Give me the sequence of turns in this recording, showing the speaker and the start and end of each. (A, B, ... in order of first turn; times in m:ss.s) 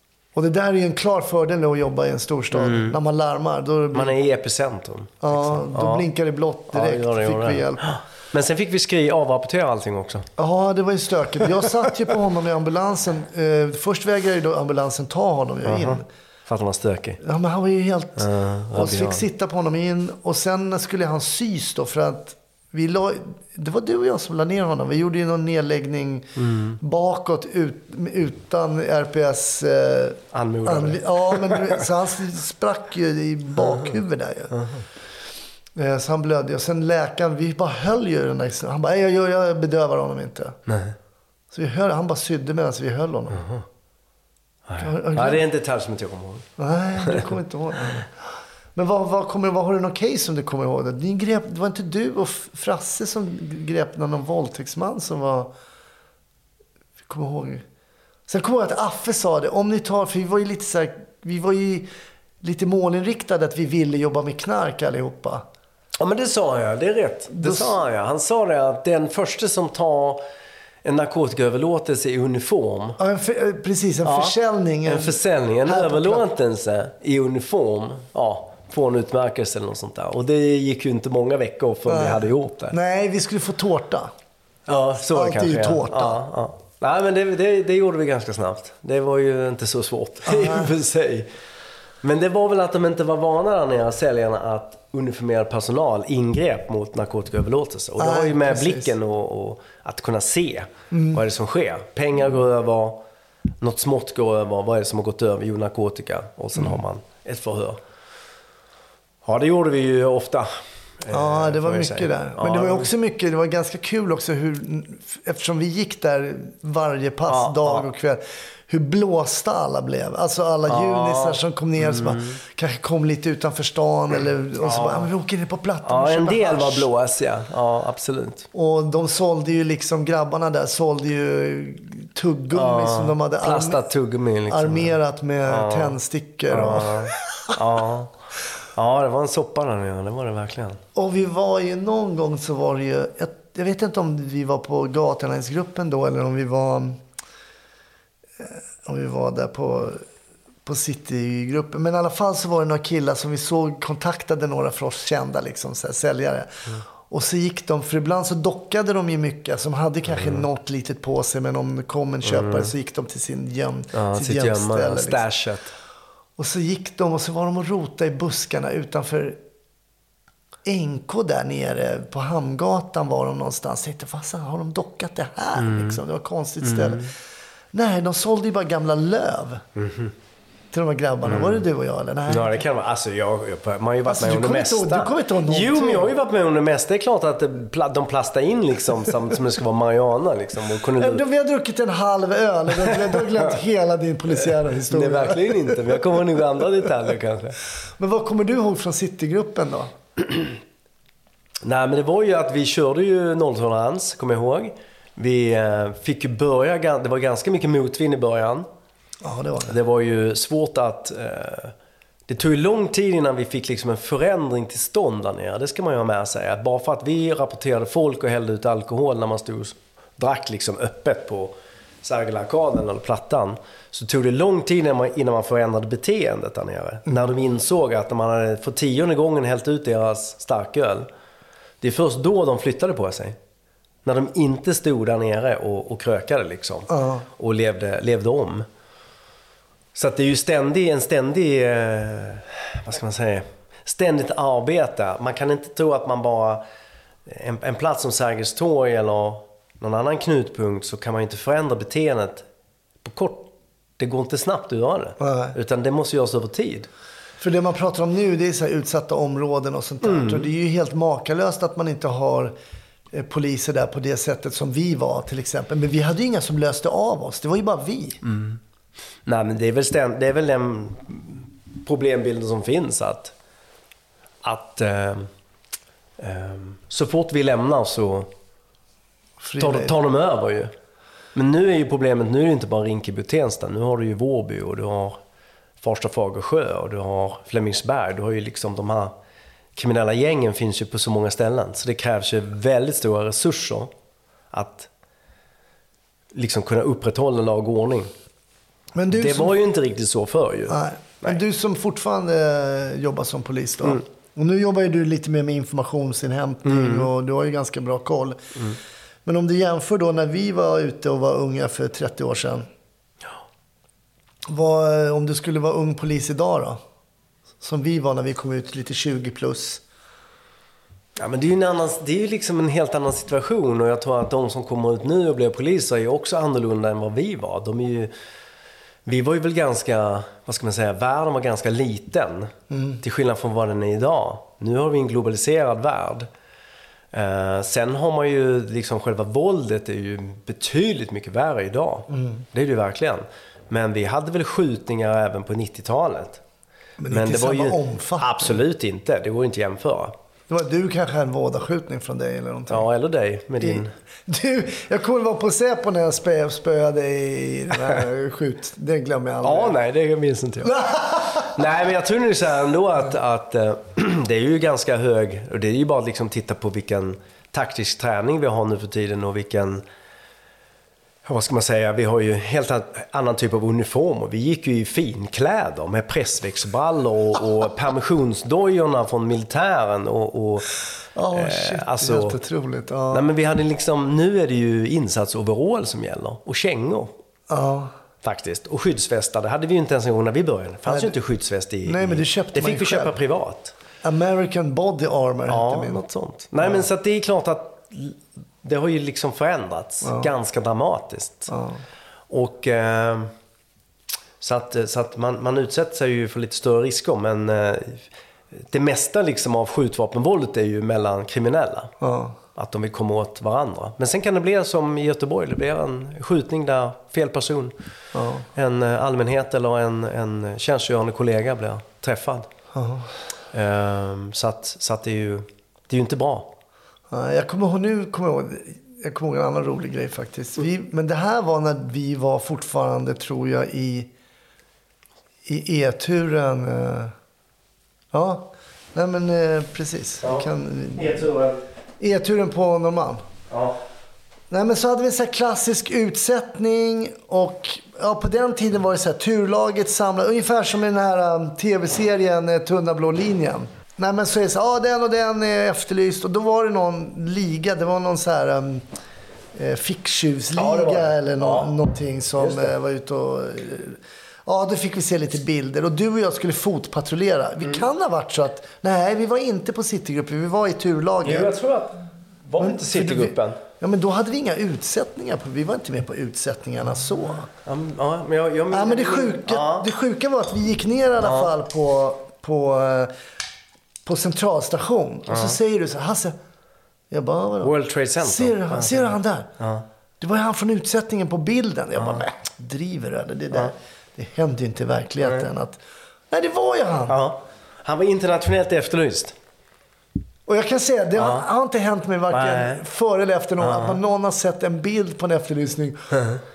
0:00.3-0:04.1 A
0:02.5-0:03.0 B
0:03.9-0:06.1 B
0:05.2-0:07.8 A
0:06.7-0:10.3 B
0:10.4-0:16.0 A
0:15.6-0:17.2 B
0:17.2-0:34.6 A
0:18.2-0:19.2 B
0:26.4-0:26.8 B
0:30.3-0:31.8 B
0:34.5-0:34.8 B
0:35.7-0:40.6 A
0:40.7-0:40.9 B
0:41.5-0:43.4 A
0:43.3-0:43.6 B
0:44.6-0:46.5 B
0:44.8-0:45.4 A
0:46.6-0:48.2 A
0:48.7-0:55.5 A
0:57.0-0:57.6 A
0:58.3-1:01.9 A
1:02.4-1:05.4 A
1:06.0-1:10.2 B
1:07.3-1:07.8 A
1:10.8-1:13.0 B
1:13.0-1:16.2 A
1:14.0-1:22.8 B
1:21.8-1:24.1 A
1:24.7-1:31.3 B
1:25.0-1:26.2 A
1:30.2-1:30.7 A
1:32.0-1:43.0 B
1:38.0-1:38.9 A
1:40.9-1:41.2 A
1:43.6-1:47.8 B
1:49.2-1:52.9 B
1:51.1-2:06.9 A
1:57.3-1:57.9 B
2:00.6-2:02.4 B
2:04.6-2:05.1 B
2:05.8-2:08.5 B
2:08.5-2:13.8 A
2:12.5-2:16.0 B
2:14.5-2:17.2 A
2:16.5-2:18.1 B
2:18.8-2:20.8 B
2:20.9-2:27.0 A
2:28.4-2:30.0 A
2:30.6-2:45.2 A
2:40.1-2:40.4 B
2:42.2-2:42.7 B
2:43.9-2:45.7 B
2:46.4-2:49.4 A
2:50.6-2:57.1 A
2:55.6-2:56.0 B
2:56.6-2:57.1 B
2:57.7-2:59.6 A
2:59.8-3:00.1 B
3:00.7-3:02.6 A
3:01.2-3:01.6 B
3:02.3-3:11.2 B
3:04.0-3:06.1 A
3:11.0-3:16.0 A
3:12.8-3:13.5 B
3:14.8-3:17.6 B
3:18.0-3:19.9 A
3:21.6-3:28.7 B
3:29.2-3:29.7 A
3:29.7-3:31.7 B
3:32.3-3:51.1 B
3:51.8-3:53.4 B
3:54.0-3:58.6 B
3:56.9-3:57.2 A
3:59.9-4:06.6 B
4:07.3-4:12.4 B
4:13.0-4:16.9 B
4:15.2-4:15.5 A
4:17.4-4:22.5 A
4:20.0-4:20.5 B
4:23.1-4:28.2 A
4:28.2-4:28.6 B
4:29.2-4:33.3 B
4:34.4-4:35.3 B
4:36.2-4:38.3 B
4:39.4-4:39.9 A
4:39.6-4:40.7 B
4:41.3-4:45.2 B
4:45.8-4:49.1 B
4:49.8-4:53.9 B
4:54.5-4:54.9 B
4:56.3-4:58.1 B
4:58.9-4:59.5 A
4:59.2-5:01.4 B
5:00.7-5:08.4 A
5:06.6-5:07.1 B
5:09.2-5:12.7 A
5:14.5-5:16.8 A
5:17.6-5:19.8 A
5:21.2-5:28.1 B
5:29.0-5:36.3 B
5:32.7-5:33.0 A
5:37.1-5:46.4 B
5:42.1-5:42.4 A
5:47.0-5:48.6 A
5:47.1-5:50.1 B
5:50.5-5:52.8 A
5:52.7-5:53.9 B
5:53.6-5:59.8 A
5:59.4-6:09.8 B
6:00.6-6:01.5 A
6:11.2-6:20.7 B
6:21.2-6:23.3 A
6:21.3-6:22.4 B
6:23.1-6:27.1 B
6:27.5-6:27.9 A
6:28.2-6:33.7 B
6:30.8-6:31.1 A
6:31.8-6:33.2 A
6:34.0-6:36.0 A
6:35.5-6:41.5 B
6:40.0-6:40.3 A
6:41.5-6:41.8 A
6:42.3-6:43.3 B
6:44.4-6:48.0 B
6:48.6-6:51.9 B
6:52.0-6:52.4 A
6:52.5-6:57.7 B
6:58.1-6:58.4 A
6:58.5-7:02.5 B
7:02.7-7:03.1 A
7:03.5-7:06.5 B
7:07.1-7:14.1 A
7:15.4-7:17.1 A
7:18.1-7:21.1 A
7:20.2-7:21.6 B
7:22.0-7:23.2 A
7:23.5-7:23.8 B
7:24.5-7:38.8 A
7:39.5-7:51.5 A
7:40.5-7:41.7 B
7:42.4-7:42.7 B
7:51.2-7:53.6 B
7:52.6-7:57.5 A
7:57.6-7:59.9 B
7:58.7-8:03.1 A
8:01.2-8:01.5 B
8:04.0-8:06.3 A
8:05.3-8:05.6 B
8:07.1-8:09.5 A
8:07.6-8:09.8 B
8:10.2-8:17.2 A
8:12.0-8:12.2 B
8:17.1-8:19.3 B
8:20.4-8:26.0 A
8:21.2-8:21.4 B
8:22.3-8:22.8 B
8:23.6-8:24.0 B
8:26.1-8:26.4 B